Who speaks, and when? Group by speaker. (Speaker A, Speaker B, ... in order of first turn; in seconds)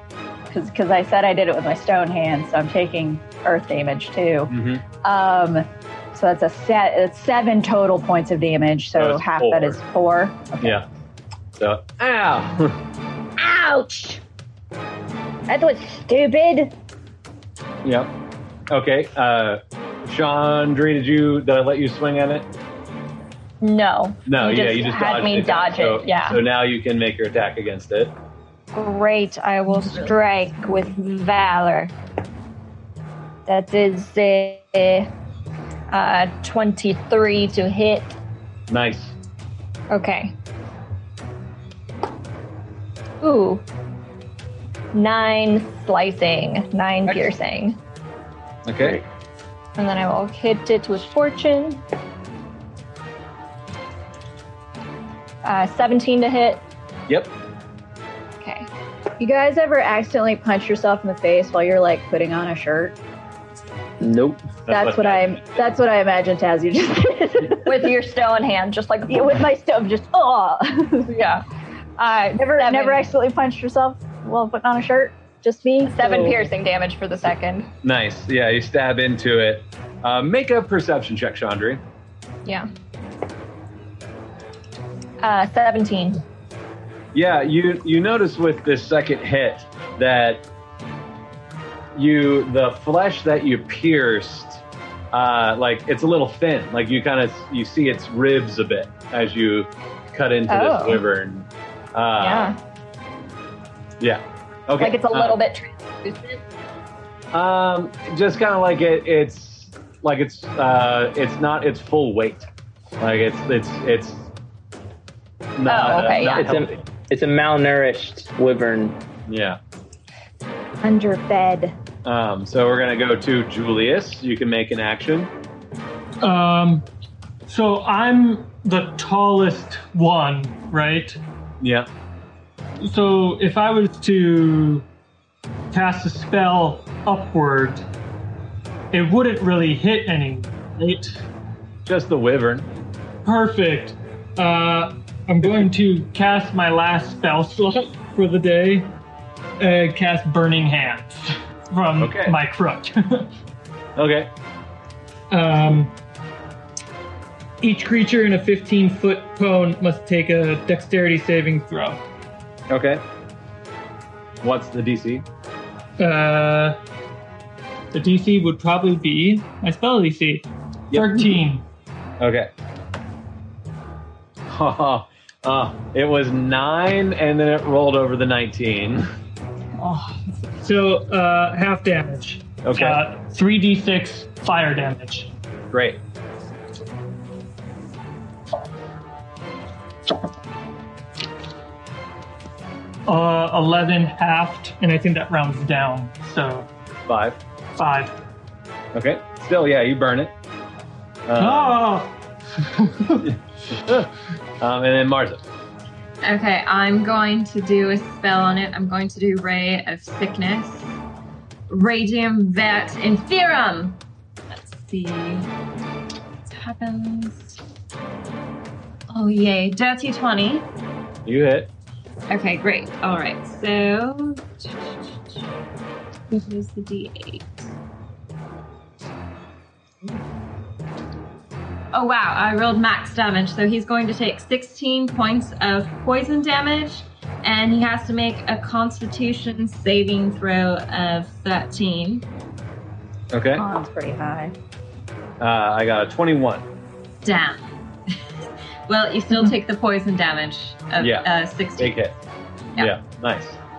Speaker A: 0.5-4.5, 5.0-10.8, 13.4-14.2, 15.5-16.7, 29.8-30.1, 59.2-63.0, 64.7-67.8, 69.1-71.1, 72.4-76.5, 120.8-121.7, 243.6-244.6
Speaker B: 4.5-4.8, 8.9-9.8, 11.6-12.8, 17.8-18.1, 18.7-22.5, 24.3-28.1, 38.7-39.1, 48.6-49.0, 64.7-65.5, 77.8-81.8, 87.1-90.4, 91.9-102.5, 104.0-105.4, 107.3-112.5, 113.0-114.3, 115.5-116.8, 119.3-119.6, 122.0-125.3, 131.6-131.9, 141.8-142.7, 152.0-152.3, 154.0-154.3, 162.7-163.0, 164.4-165.2, 170.9-171.3, 172.2-172.5, 174.5-179.1, 182.6-183.0, 185.7-186.0, 197.1-197.4, 198.9-200.3, 201.3-201.8, 203.2-204.1, 204.6-205.4, 221.3-221.7, 243.3-243.6, 245.4-246.6, 251.0-252.1, 252.8-253.6
Speaker C: 23.6-26.4, 28.7-31.9, 33.5-35.1, 35.9-38.1, 39.9-40.3, 43.2-43.6, 44.9-47.8, 49.8-51.8, 55.4-56.6, 58.4-58.7, 67.6-69.4, 71.1-71.4, 72.0-73.1, 75.8-77.7, 85.2-86.2, 100.5-101.0, 102.2-102.6, 104.8-106.4, 115.7-116.5
Speaker D: 64.0-64.5, 116.3-119.0
Speaker E: 126.2-126.8, 127.5-131.2, 132.8-134.9, 135.7-137.8, 138.9-141.1, 143.2-148.9, 149.6-153.3, 155.3-155.9, 157.6-162.0, 166.0-166.8, 167.9-171.6, 180.6-185.3, 193.1-196.7, 197.8-198.1, 201.3-203.3
Speaker F: 206.2-211.0, 211.7-215.5, 216.4-217.6, 219.1-220.7, 222.3-225.5, 226.3-227.7, 231.9-242.3, 247.2-247.7, 248.9-252.0